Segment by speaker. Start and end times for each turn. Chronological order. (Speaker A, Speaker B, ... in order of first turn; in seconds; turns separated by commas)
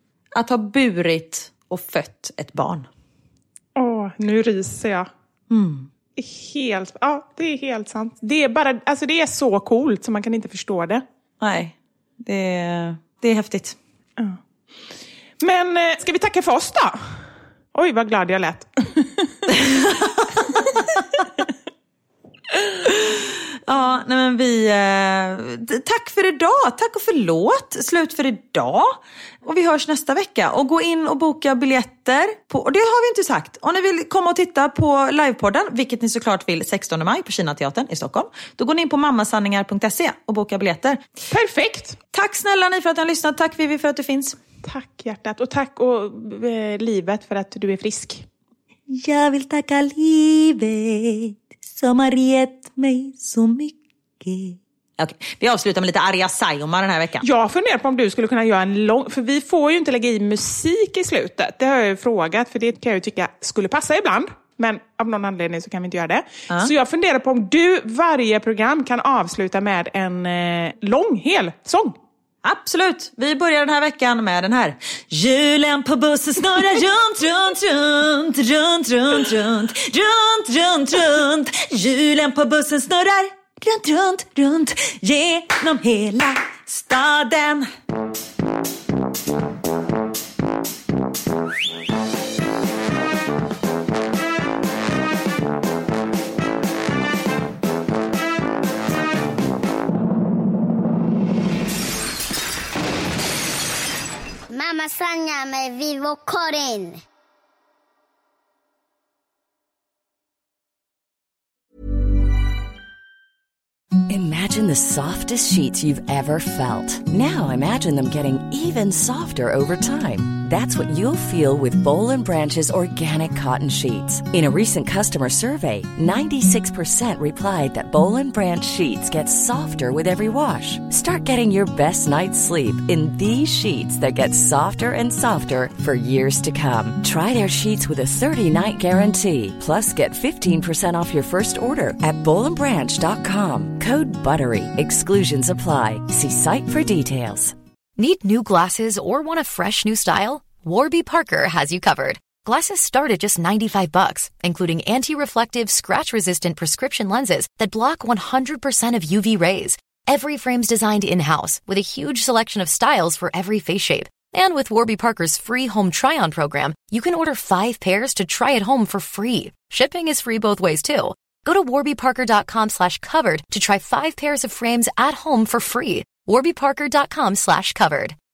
Speaker A: 0.3-2.9, Speaker B: 3.8-5.1, Speaker A: 5.5-5.9, Speaker B: 6.2-11.0, Speaker A: 11.4-13.8, Speaker B: 15.4-17.2, Speaker B: 17.8-19.4, Speaker A: 19.5-21.3, Speaker A: 22.9-41.0, Speaker B: 41.3-42.0, Speaker A: 42.1-44.4, Speaker B: 44.6-48.2, Speaker A: 48.9-57.3, Speaker B: 57.2-72.0, Speaker A: 72.4-87.7, Speaker C: 104.5-107.0, Speaker D: 114.1-147.5, Speaker E: 148.0-178.2